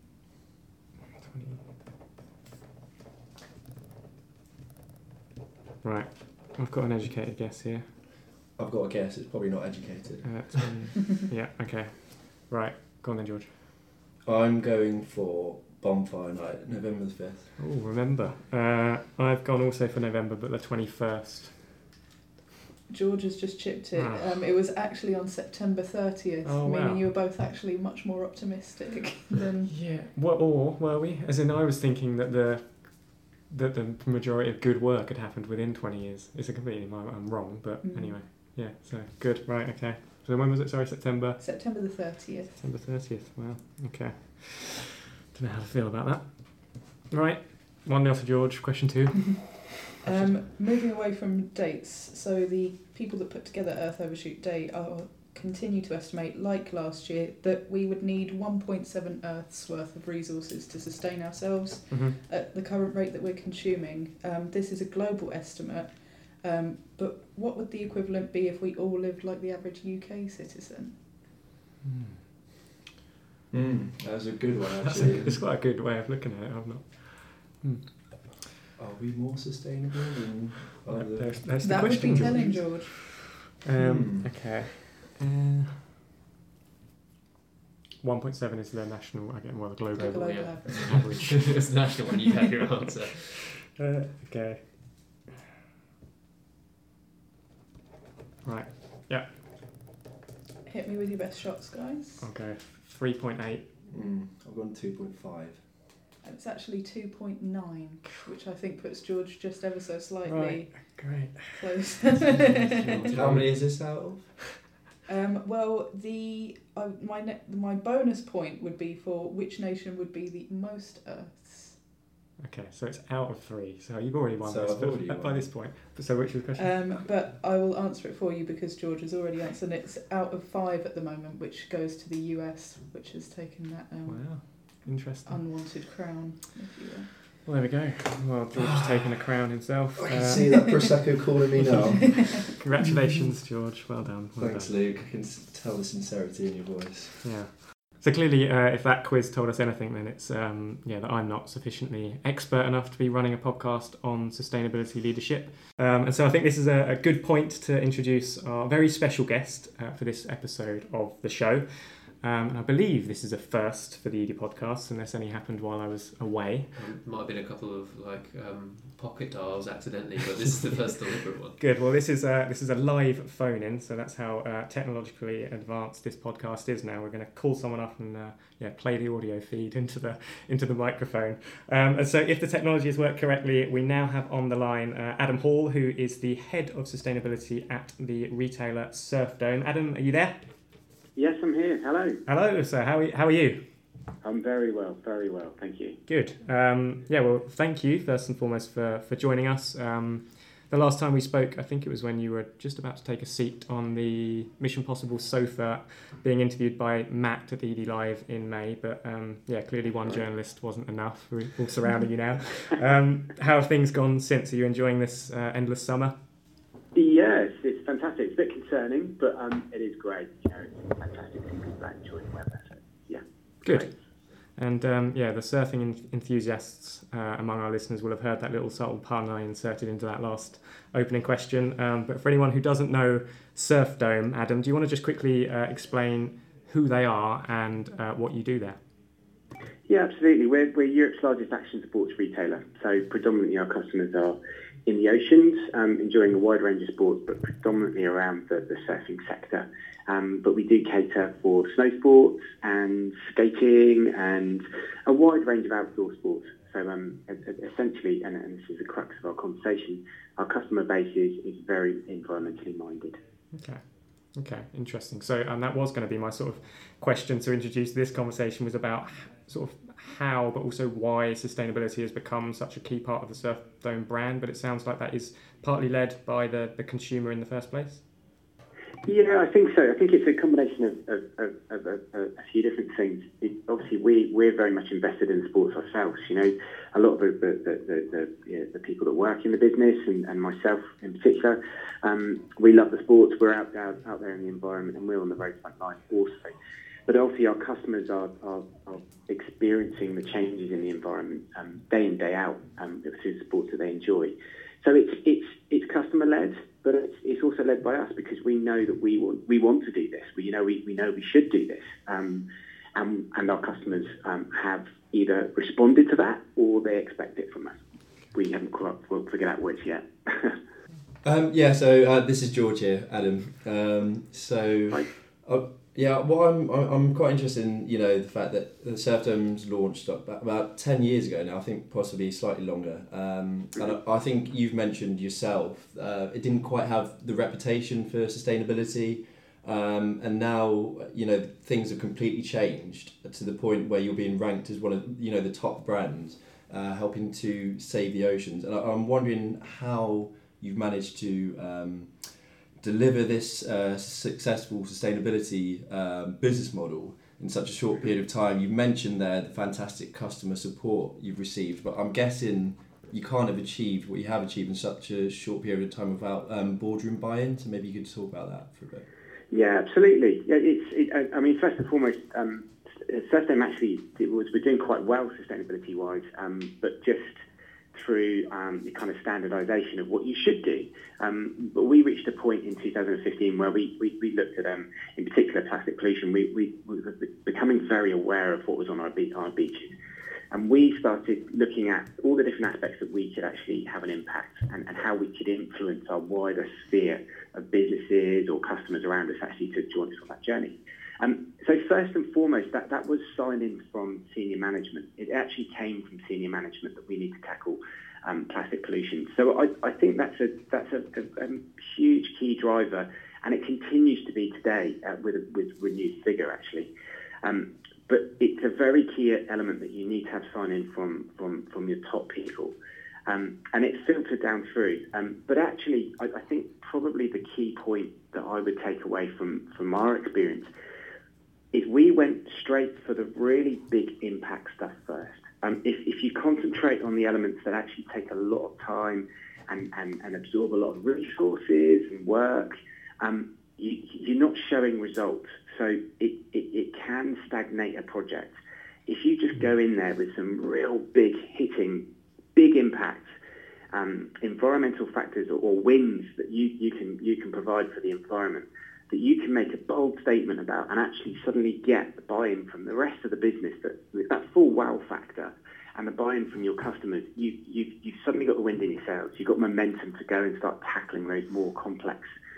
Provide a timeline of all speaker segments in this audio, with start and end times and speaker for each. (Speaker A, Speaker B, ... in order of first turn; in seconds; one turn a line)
Speaker A: 1.2-2.1
Speaker A: 5.8-8.0
Speaker B: 8.5-10.6
Speaker A: 10.2-13.5
Speaker B: 14.2-17.5
Speaker A: 17.6-21.8
Speaker C: 22.9-29.7
Speaker A: 23.9-24.4
Speaker A: 26.4-27.1
Speaker A: 29.6-41.4
Speaker C: 37.8-38.5
Speaker C: 41.4-42.6
Speaker A: 42.6-50.5
Speaker C: 50.0-71.0
Speaker A: 61.9-62.2
Speaker A: 71.8-72.2
Speaker B: 73.5-75.4
Speaker A: 74.8-78.3
Speaker B: 78.8-82.5
Speaker A: 80.9-85.9
Speaker C: 81.6-83.0
Speaker B: 83.8-84.6
Speaker A: 88.0-91.9
Speaker C: 90.0-91.3
Speaker D: 90.0-93.5
Speaker A: 93.3-95.2
Speaker A: 98.4-99.5
Speaker C: 100.7-102.3
Speaker A: 102.2-103.7
Speaker B: 103.9-105.7
Speaker C: 106.2-113.2
Speaker A: 110.2-111.8
Speaker D: 112.9-113.2
Speaker A: 112.9-113.5
Speaker B: 113.1-114.6
Speaker C: 115.0-121.9
Speaker A: 122.4-127.0
Speaker B: 124.4-125.7
Speaker C: 126.6-137.1
Speaker A: 134.1-135.8
Speaker A: 137.4-141.0
Speaker B: 138.5-139.2
Speaker B: 140.0-142.5
Speaker C: 140.4-140.9
Speaker A: 141.6-142.0
Speaker C: 142.1-143.2
Speaker A: 142.5-144.8
Speaker B: 144.4-147.2
Speaker A: 147.2-166.8
Speaker D: 166.7-171.6
Speaker A: 171.6-190.4
Speaker E: 191.2-192.2
Speaker A: 192.2-193.6
Speaker E: 194.2-196.0
Speaker A: 196.1-216.2
Speaker E: 216.9-223.9
Speaker A: 223.6-238.8
Speaker E: 239.9-263.2
Speaker A: 263.5-278.0
Speaker E: 279.1-296.6
Speaker E: 297.1-317.8
Speaker E: 318.3-320.6
Speaker B: 321.2-352.3
Speaker B: 352.8-369.1
Speaker E: 369.5-377.3
Speaker E: 377.9-389.9
Speaker E: 390.5-416.9
Speaker E: 417.4-422.7
Speaker E: 423.3-430.7
Speaker E: 431.7-448.5
Speaker E: 449.1-452.0
Speaker E: 452.6-453.3
Speaker E: 453.9-472.3